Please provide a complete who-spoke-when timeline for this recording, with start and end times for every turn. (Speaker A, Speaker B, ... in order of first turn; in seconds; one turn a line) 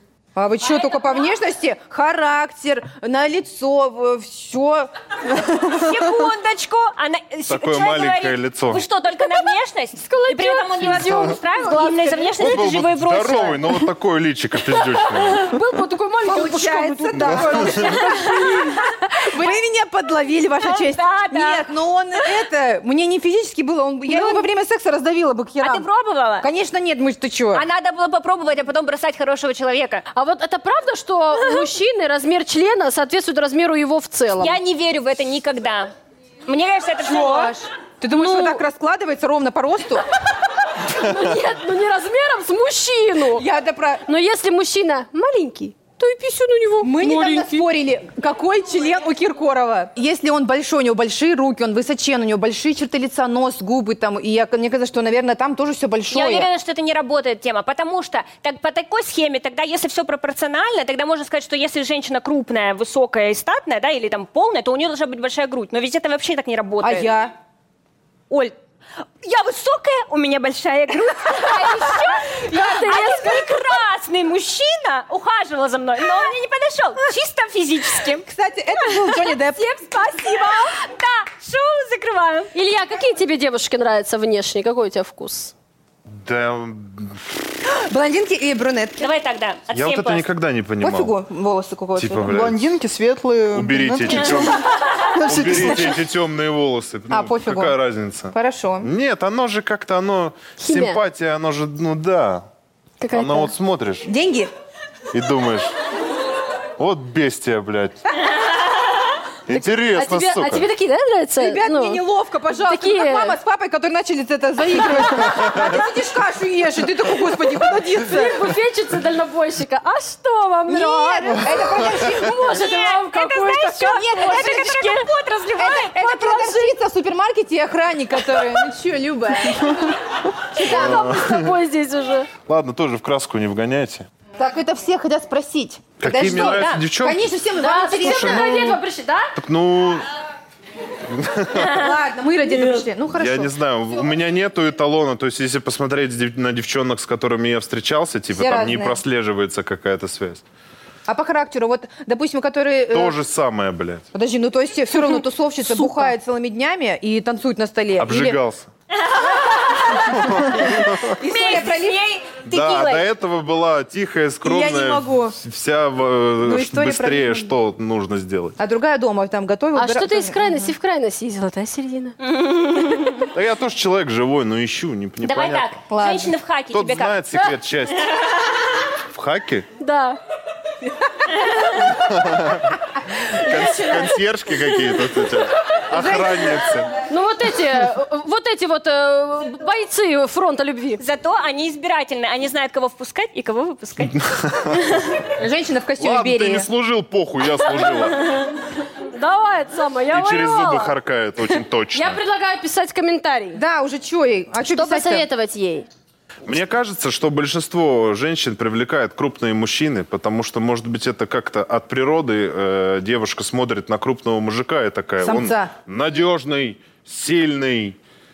Speaker A: 0.3-4.9
Speaker B: 5.6-13.8
Speaker C: 7.5-8.8
Speaker D: 10.0-12.5
Speaker C: 10.8-11.3
Speaker C: 12.4-15.6
Speaker D: 15.0-18.8
Speaker A: 16.2-18.5
Speaker C: 17.1-18.0
Speaker B: 17.4-18.8
Speaker A: 19.1-25.9
Speaker B: 20.6-22.4
Speaker B: 24.1-24.4
Speaker B: 25.6-26.5
Speaker A: 26.4-27.6
Speaker B: 27.5-30.0
Speaker D: 30.1-34.5
Speaker B: 34.4-35.9
Speaker B: 36.5-37.6
Speaker A: 37.0-40.0
Speaker D: 38.1-38.6
Speaker D: 40.8-43.5
Speaker A: 43.3-44.0
Speaker D: 44.0-47.7
Speaker A: 46.8-56.5
Speaker B: 56.1-67.1
Speaker A: 66.8-67.3
Speaker B: 68.3-68.5
Speaker B: 69.2-82.5
Speaker D: 71.5-73.8
Speaker A: 72.5-73.1
Speaker A: 78.2-79.6
Speaker D: 79.6-80.8
Speaker D: 82.5-85.5
Speaker C: 86.1-87.5
Speaker A: 87.7-89.1
Speaker B: 89.0-90.2
Speaker C: 89.7-91.1
Speaker A: 90.8-92.3
Speaker C: 92.0-92.6
Speaker E: 92.2-94.6
Speaker C: 93.5-102.4
Speaker E: 95.1-96.0
Speaker A: 97.1-97.8
Speaker A: 98.3-98.9
Speaker D: 100.6-101.0
Speaker D: 103.0-103.5
Speaker C: 103.1-104.1
Speaker A: 104.0-104.5
Speaker C: 105.1-105.7
Speaker C: 106.8-108.0
Speaker C: 109.5-110.7
Speaker D: 109.5-112.0
Speaker A: 111.4-118.4
Speaker D: 112.6-113.4
Speaker C: 115.2-115.5
Speaker D: 118.0-125.1
Speaker A: 120.7-122.6
Speaker B: 122.4-126.0
Speaker A: 124.2-124.7
Speaker A: 125.6-130.0
Speaker D: 125.9-126.8
Speaker D: 130.5-132.3
Speaker C: 130.6-131.5
Speaker A: 130.7-131.1
Speaker C: 132.4-134.1
Speaker A: 134.3-138.7
Speaker C: 136.0-137.2
Speaker B: 136.3-136.8
Speaker D: 137.6-139.3
Speaker C: 137.9-138.8
Speaker C: 139.3-140.1
Speaker C: 141.0-141.8
Speaker B: 141.6-141.9
Speaker A: 141.6-143.6
Speaker B: 142.5-142.8
Speaker C: 143.1-150.4
Speaker A: 148.3-149.0
Speaker A: 151.1-153.2
Speaker C: 152.9-154.1
Speaker A: 154.1-158.4
Speaker D: 155.8-156.1
Speaker C: 158.0-158.7
Speaker B: 159.0-160.1
Speaker C: 159.9-161.2
Speaker A: 161.2-162.0
Speaker B: 161.2-163.1
Speaker C: 162.4-168.6
Speaker A: 164.4-165.3
Speaker A: 166.4-167.5
Speaker A: 168.6-170.7
Speaker D: 169.7-172.2
Speaker B: 172.2-173.3
Speaker C: 173.3-175.8
Speaker B: 175.2-177.2
Speaker A: 175.9-176.3
Speaker C: 176.7-178.1
Speaker C: 179.1-179.7
Speaker D: 179.8-180.2
Speaker C: 181.9-186.9
Speaker A: 185.9-186.7
Speaker D: 187.1-191.0
Speaker B: 191.0-194.3
Speaker C: 194.1-195.0
Speaker A: 195.4-196.7
Speaker C: 196.0-198.3
Speaker D: 198.0-200.9
Speaker C: 200.1-202.2
Speaker D: 201.9-203.6
Speaker A: 203.5-205.2
Speaker D: 204.6-205.9
Speaker C: 206.4-217.9
Speaker A: 215.2-215.7